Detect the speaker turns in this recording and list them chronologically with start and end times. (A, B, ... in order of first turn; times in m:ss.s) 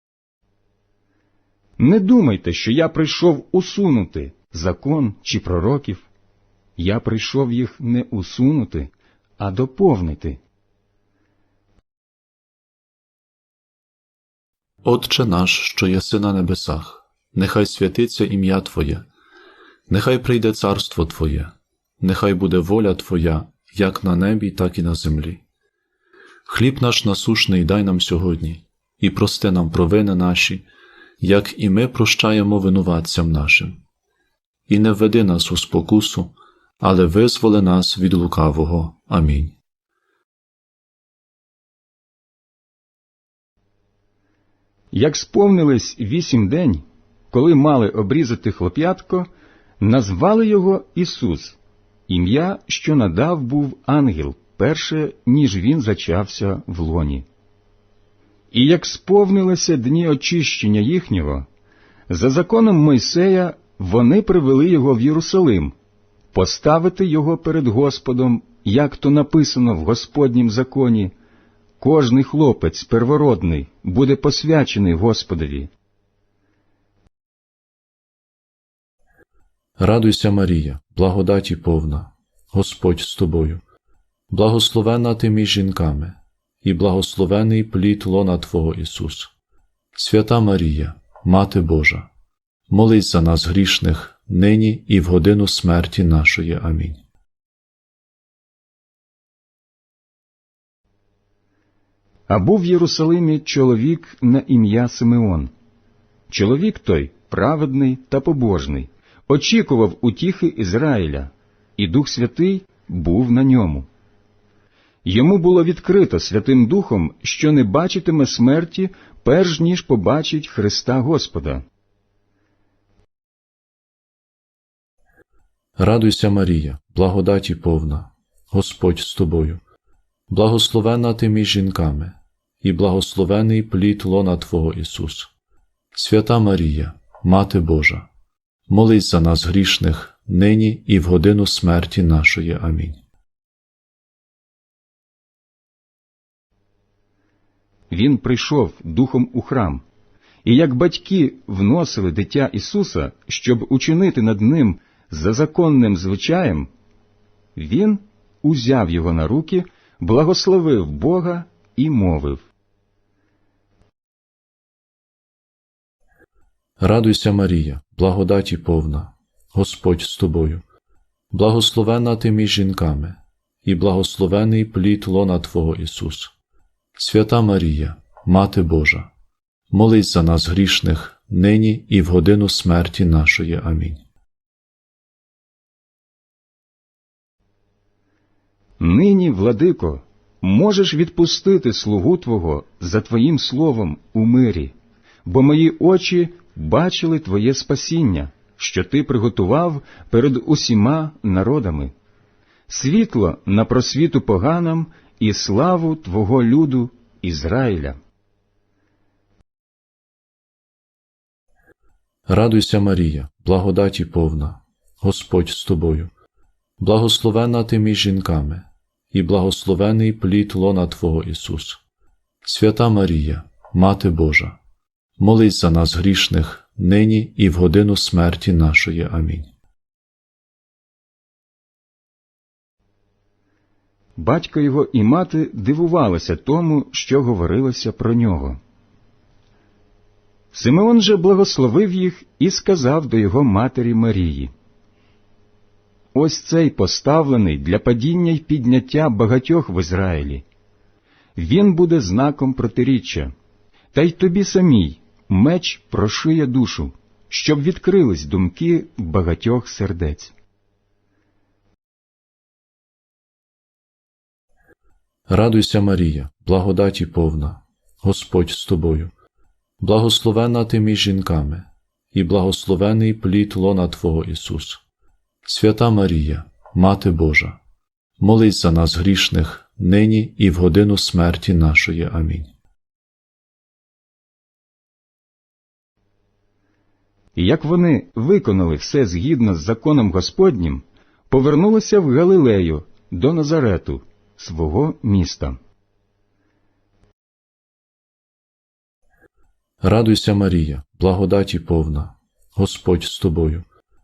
0:01.8-0:06.1 A
0:06.8-0:10.4 A
0:14.8-0:19.0 B
0:19.9-0:25.4 B
0:26.5-0:30.6 B
0:31.2-0:33.8 B
0:34.7-0:39.5 B
0:44.9-0:49.3 A
0:49.8-0:57.2 A
0:58.5-1:01.5 A
1:02.1-1:05.7 A
1:06.3-1:11.1 A
1:11.8-1:15.7 A
1:19.8-1:23.6 B
1:24.3-1:29.3 B
1:29.9-1:32.1 B
1:32.7-1:37.0 B
1:42.3-1:45.5 A
1:46.3-1:53.9 A
1:55.0-2:01.6 A
2:05.8-2:09.6 B
2:10.3-2:15.3 B
2:15.9-2:18.1 B
2:18.7-2:23.0 B
2:27.9-2:29.8 A
2:30.4-2:36.7 A
2:37.5-2:42.5 A
2:46.8-2:50.6 B
2:51.3-2:56.3 B
2:57.0-2:59.1 B
2:59.7-3:04.0 B
3:08.8-3:14.7 A
3:15.2-3:21.9 A
3:22.7-3:28.0 A
3:32.3-3:36.1 B
3:36.8-3:41.8 B
3:42.4-3:44.6 B
3:45.2-3:49.5 B
3:54.2-3:58.6 A
4:00.5-4:04.5 A
4:06.1-4:10.4 A
4:11.4-4:13.3 A
4:13.9-4:20.3 A
4:25.3-4:29.1 B
4:29.8-4:34.8 B
4:35.4-4:37.6 B
4:38.2-4:42.5 B
4:47.3-4:55.6 A
4:59.8-5:03.6 B